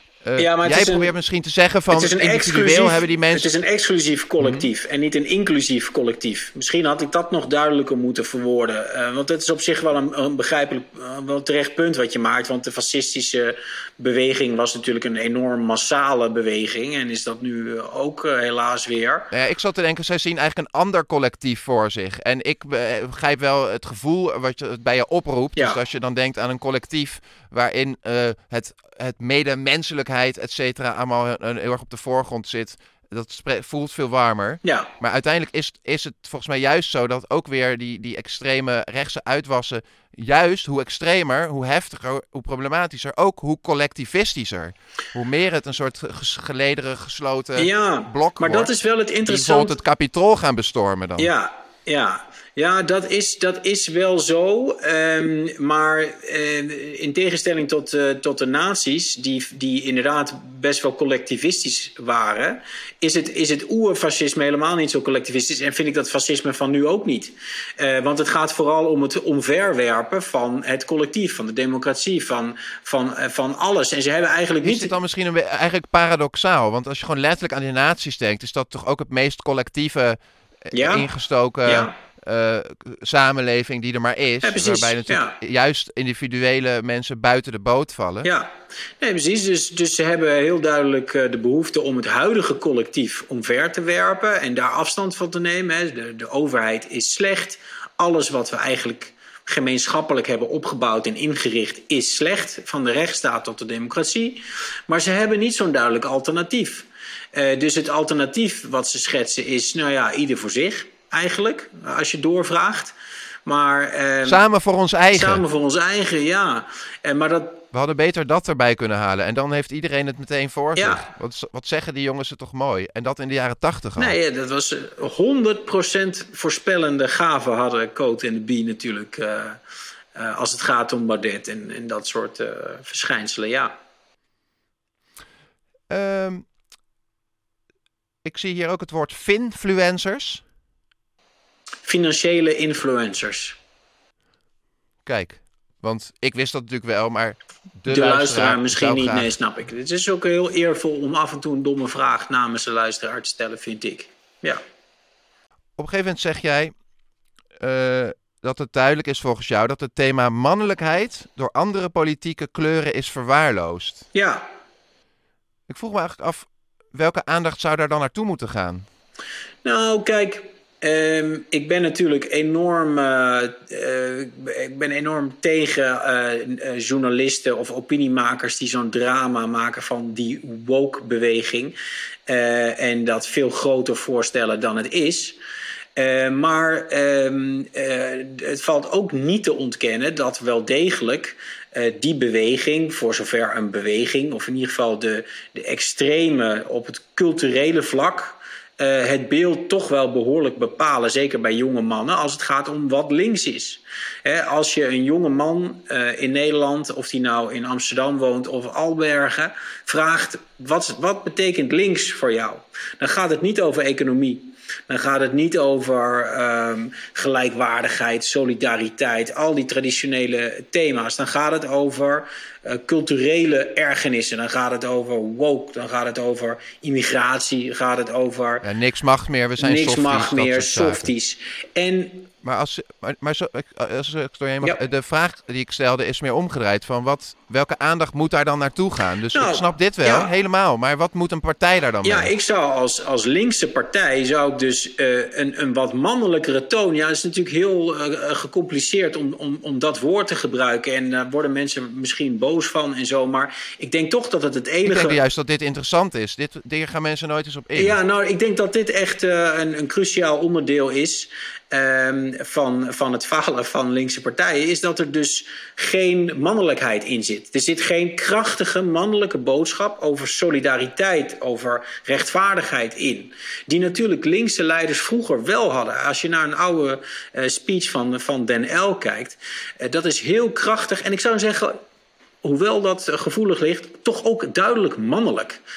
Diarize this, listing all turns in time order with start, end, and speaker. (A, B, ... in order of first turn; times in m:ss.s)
0:00.2-0:03.5 A
0:00.4-0:01.1 B
0:01.9-0:19.3 B
0:04.4-0:04.7 A
0:19.3-0:48.7 A
0:47.6-0:49.7 B
0:49.2-0:51.3 A
0:51.2-1:14.9 B
1:14.6-1:28.3 A
1:20.7-1:21.0 B
1:21.6-1:21.9 B
1:24.4-1:25.3 B
1:28.2-1:28.5 B
1:29.0-1:52.9 B
1:53.4-1:54.4 B
1:54.2-1:55.4 A
1:55.1-1:57.6 B
1:57.7-2:04.2 A
2:00.8-2:01.0 B
2:04.0-2:09.6 B
2:10.2-2:13.8 B
2:15.9-2:16.5 A
2:18.2-2:20.4 A
2:21.8-2:23.6 B
2:25.0-2:29.3 A
2:27.8-2:34.6 B
2:35.8-2:36.7 A
2:37.6-2:44.1 A
2:44.1-2:44.4 B
2:45.7-2:48.8 A
2:49.6-3:01.7 B
3:02.3-3:05.4 B
3:06.0-3:48.6 B
3:48.6-3:51.1 A
3:49.6-3:52.3 B
3:52.4-4:02.3 A
3:59.3-4:00.3 B
4:02.0-4:15.2 B
4:14.8-4:18.0 A
4:17.8-4:41.8 B
4:42.4-4:45.6 B